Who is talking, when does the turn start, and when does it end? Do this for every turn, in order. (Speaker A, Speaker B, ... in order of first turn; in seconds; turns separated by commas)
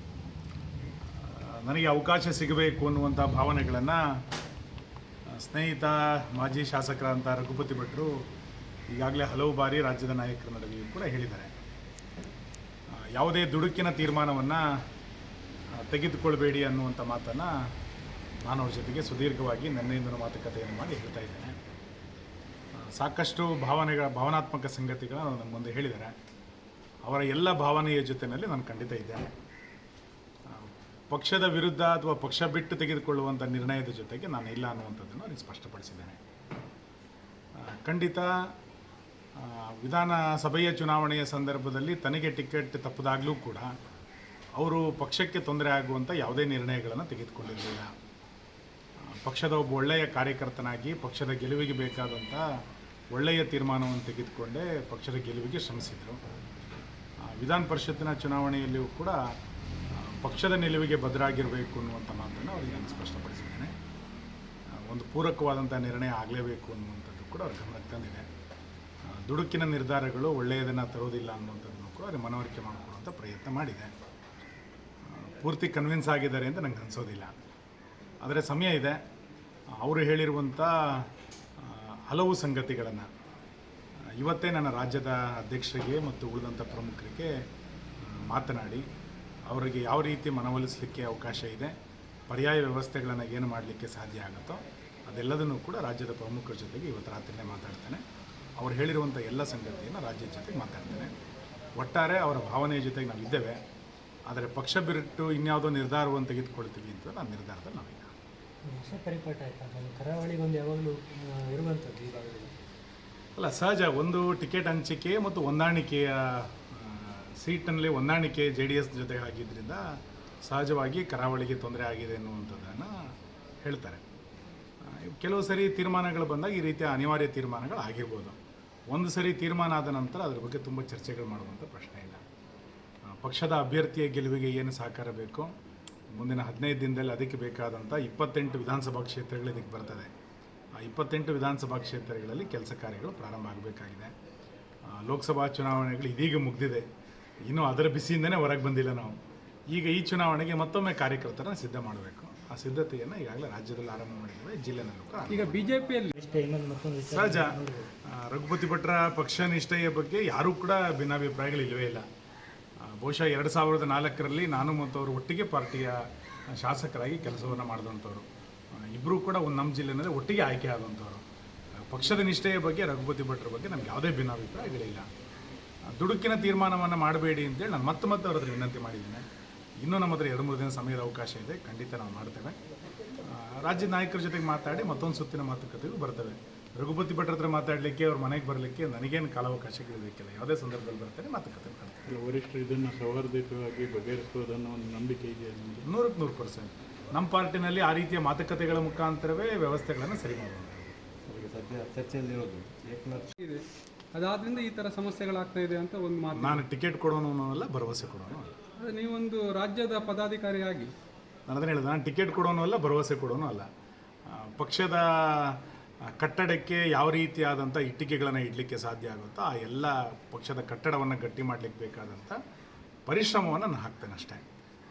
Speaker A: 1.2-4.0, Speaker A: 5.3-8.1, Speaker A: 8.9-11.5, Speaker A: 13.0-14.7, Speaker A: 15.8-17.5, Speaker A: 18.4-21.6, Speaker A: 22.8-26.1, Speaker A: 27.0-29.3, Speaker A: 30.5-36.2, Speaker A: 37.6-38.4, Speaker A: 39.4-43.7, Speaker A: 44.6-47.9, Speaker A: 49.1-52.5, Speaker A: 53.1-56.2, Speaker A: 57.2-59.2, Speaker A: 60.0-63.7, Speaker A: 64.8-68.3, Speaker A: 69.1-73.9, Speaker A: 75.1-77.4, Speaker A: 78.2-79.0, Speaker A: 79.8-81.1, Speaker A: 81.6-83.1, Speaker A: 84.2-87.3, Speaker A: 88.0-88.8, Speaker A: 89.5-91.7, Speaker A: 92.3-98.0, Speaker A: 98.6-101.1, Speaker A: 101.8-103.6, Speaker A: 104.3-108.1, Speaker B: 108.7-112.6, Speaker A: 113.4-123.1, Speaker A: 123.6-124.0, Speaker A: 124.8-128.4, Speaker A: 128.9-132.2, Speaker A: 133.1-135.5, Speaker A: 136.1-140.1, Speaker A: 140.8-144.1, Speaker A: 144.9-146.9, Speaker A: 147.4-149.2, Speaker A: 149.7-155.6, Speaker C: 155.3-156.1, Speaker B: 156.2-157.9, Speaker A: 157.1-162.1, Speaker A: 162.8-168.3, Speaker A: 168.8-171.2, Speaker A: 171.9-175.1, Speaker A: 175.9-179.2, Speaker A: 179.8-182.6, Speaker A: 183.2-192.1, Speaker D: 192.1-195.9, Speaker A: 195.8-201.0, Speaker E: 201.3-203.3, Speaker C: 203.4-203.6, Speaker C: 204.2-206.6, Speaker A: 206.3-208.5, Speaker C: 208.8-210.9, Speaker A: 211.5-213.7, Speaker A: 214.3-222.4, Speaker A: 223.1-224.4